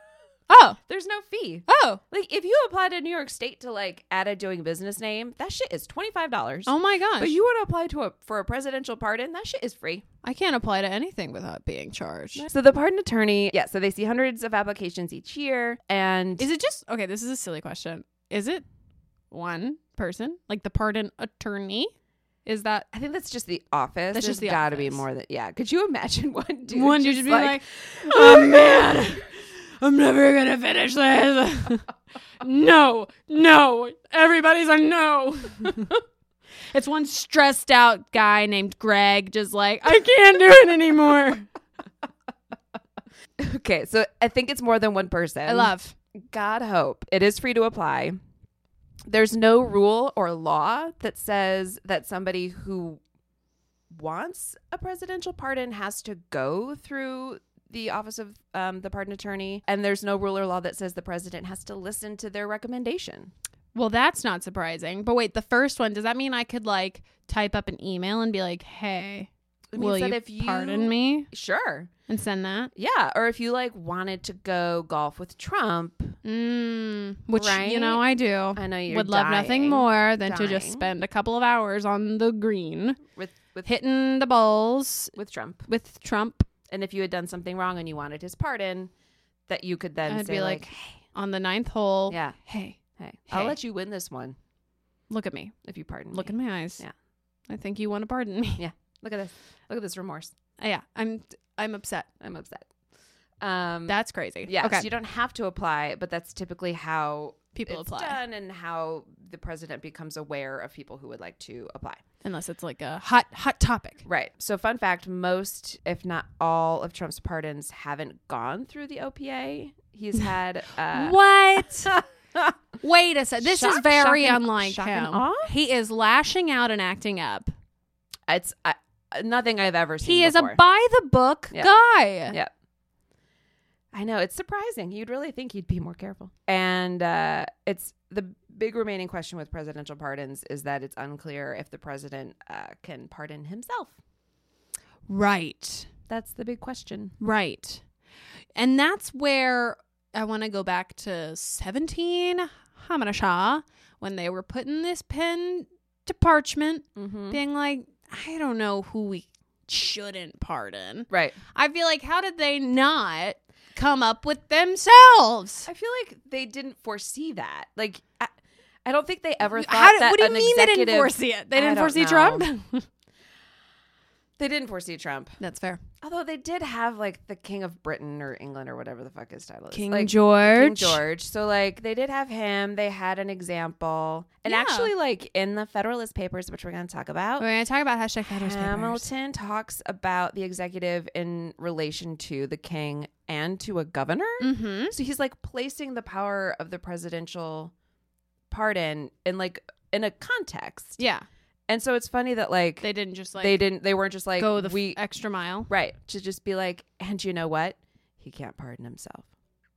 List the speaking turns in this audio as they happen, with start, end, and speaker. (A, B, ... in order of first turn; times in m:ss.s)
0:00.5-0:00.8 A
0:00.9-0:10.0 B
0:01.7-0:02.0 A
0:06.7-0:07.3 A
0:10.2-0:12.4 A
0:12.4-0:16.5 B
0:16.4-0:18.6 A
0:19.3-0:21.9 A
0:22.4-0:22.9 A
0:22.9-0:29.0 B
0:24.1-0:25.0 A
0:26.7-0:31.9 A
0:32.4-0:36.0 A
0:36.7-0:41.5 A
0:43.4-0:48.2 B
0:45.4-0:45.9 A
0:49.1-0:53.0 B
0:53.9-1:03.3 B
1:03.7-1:11.3 A
1:09.7-1:11.9 B
1:12.1-1:12.7 A
1:12.8-1:16.2 B
1:16.2-1:23.0 A
1:17.3-1:18.0 B
1:18.5-1:20.8 B
1:23.1-1:23.7 B
1:23.6-1:25.1 A
1:25.2-1:25.6 B
1:25.7-1:26.5 A
1:26.7-1:28.9 B
1:29.5-1:30.9 B
1:30.1-1:32.8 A
1:32.1-1:32.4 B
1:33.0-1:34.4 B
1:33.3-1:33.6 A
1:35.1-1:35.6 A
1:35.6-1:36.9 B
1:36.1-1:36.8 A
1:37.5-1:38.6 A
1:38.6-1:40.3 B
1:40.6-1:42.1 A
1:42.2-1:42.7 B
1:43.4-1:52.0 B
1:43.9-1:44.9 A
1:47.5-1:48.2 A
1:52.2-1:54.0 A
1:54.0-2:01.2 B
2:00.9-2:02.0 A
2:01.8-2:02.5 B
2:02.8-2:07.5 A
2:03.4-2:05.5 B
2:08.3-2:10.6 B
2:10.0-2:12.4 A
2:13.9-2:23.9 B
2:25.1-2:25.9 A
2:26.1-2:27.1 B
2:27.2-2:27.8 A
2:28.6-2:45.7 A
2:37.0-2:37.4 B
2:41.1-2:41.4 B
2:45.6-2:48.3 B
2:48.8-2:52.4 B
2:49.6-2:52.8 A
2:54.4-2:55.4 B
2:55.4-2:55.8 A
2:56.0-3:07.4 B
2:59.7-3:01.0 A
3:04.4-3:04.9 A
3:07.4-3:09.1 A
3:08.3-3:17.7 B
3:14.4-3:14.9 A
3:18.5-3:21.0 B
3:21.0-3:21.2 A
3:21.7-3:22.9 B
3:22.8-3:23.6 A
3:23.4-3:25.0 B
3:24.4-3:25.7 A
3:25.7-3:29.2 B